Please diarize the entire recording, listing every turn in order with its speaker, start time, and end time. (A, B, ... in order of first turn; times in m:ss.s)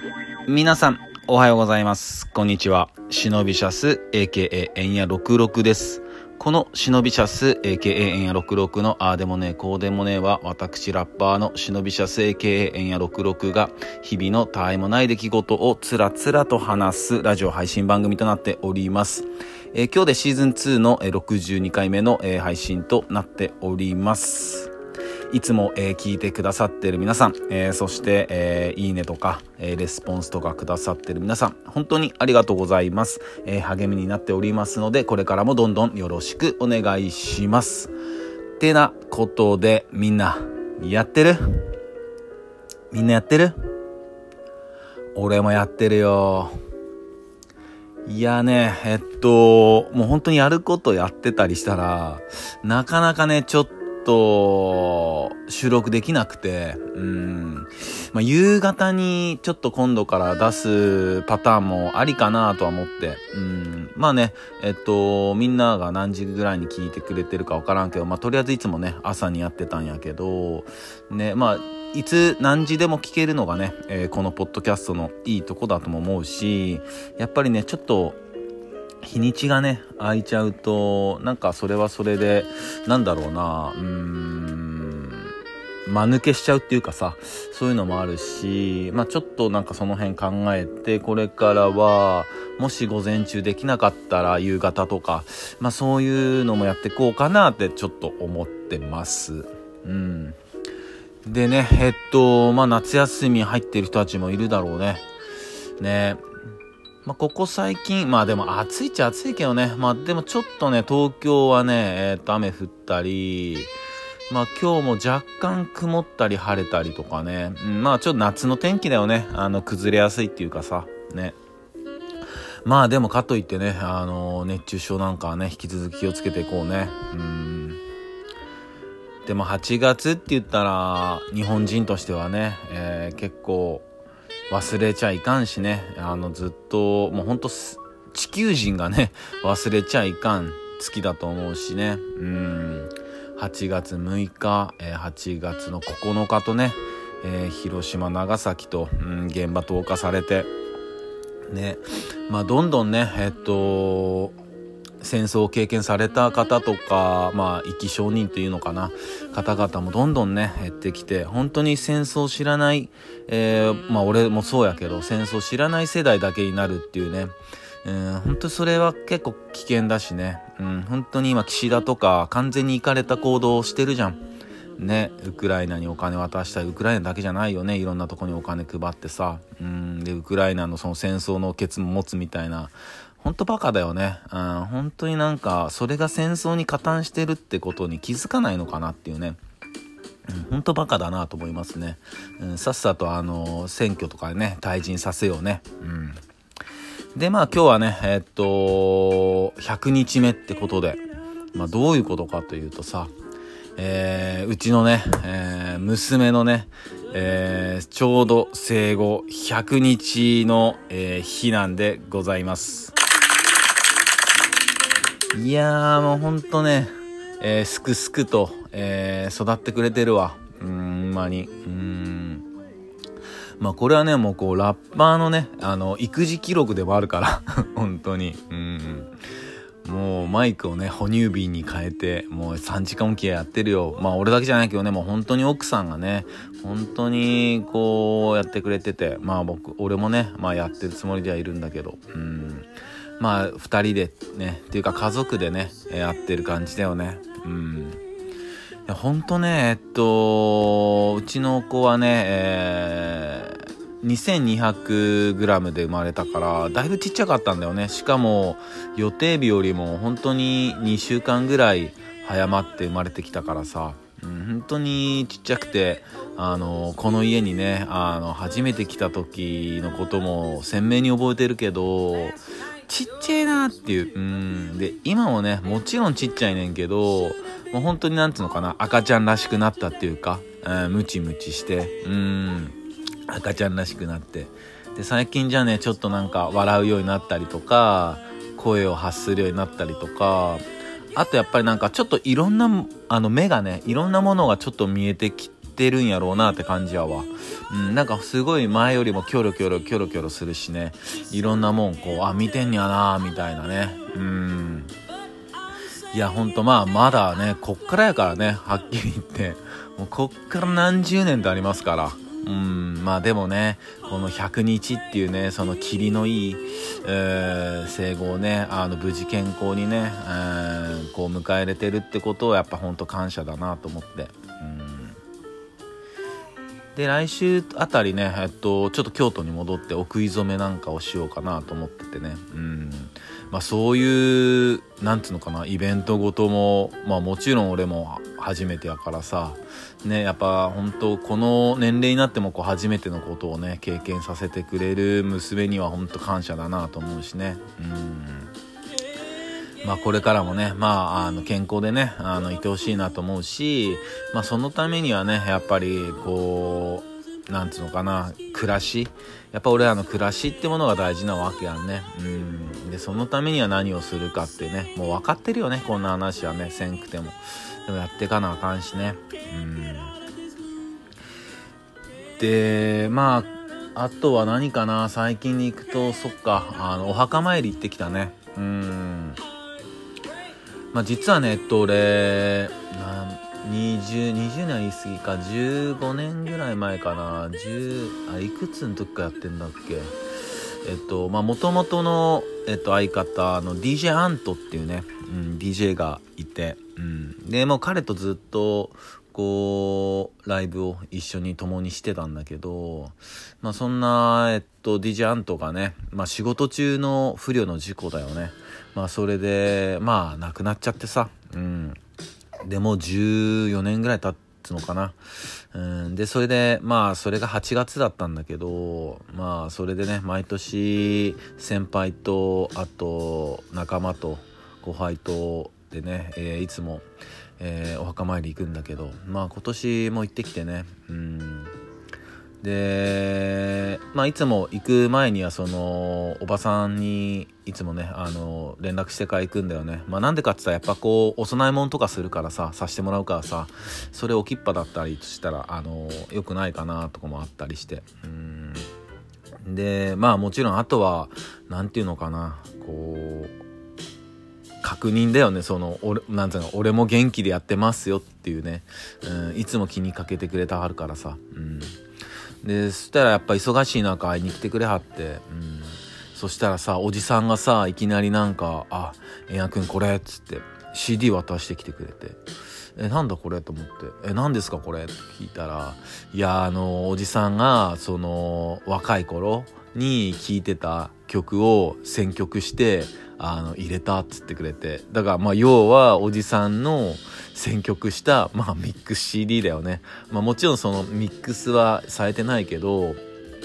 0:00.4-0:24.7 A
0:25.3-0:37.9 A
0:38.6-0:41.7 A
0:42.9-0:43.6 A
0:45.2-0:46.5 A
0:48.1-1:18.2 A
1:19.0-1:25.3 A
1:25.8-1:40.4 A
1:41.2-1:45.0 A
1:45.8-1:46.2 A
1:47.0-1:53.7 A
1:54.3-2:01.4 A
2:02.6-2:07.8 A
2:09.2-2:13.9 A
2:14.5-2:30.5 A
2:31.5-2:34.4 A
2:35.0-2:47.3 A
2:47.8-2:54.2 A
2:54.8-3:09.4 A
3:10.3-3:16.2 A
3:17.2-3:21.0 A
3:21.5-3:23.1 A
3:23.8-3:32.9 A
3:35.3-3:42.5 A
3:43.6-3:49.1 A
3:49.8-4:02.7 A
4:03.2-4:08.0 A
4:08.9-4:42.8 A
4:43.3-5:04.9 A
5:06.1-5:25.2 A
5:26.9-5:48.5 A
5:49.8-6:10.1 A
6:12.4-6:19.4 A
6:20.9-6:30.2 A
6:30.8-6:52.0 A
6:52.6-6:55.2 A
6:55.7-7:07.1 A
7:07.6-7:11.7 A
7:12.6-7:28.9 A
7:29.6-7:33.5 A
7:34.8-7:42.0 A
7:42.6-7:52.4 A
7:53.0-8:13.2 A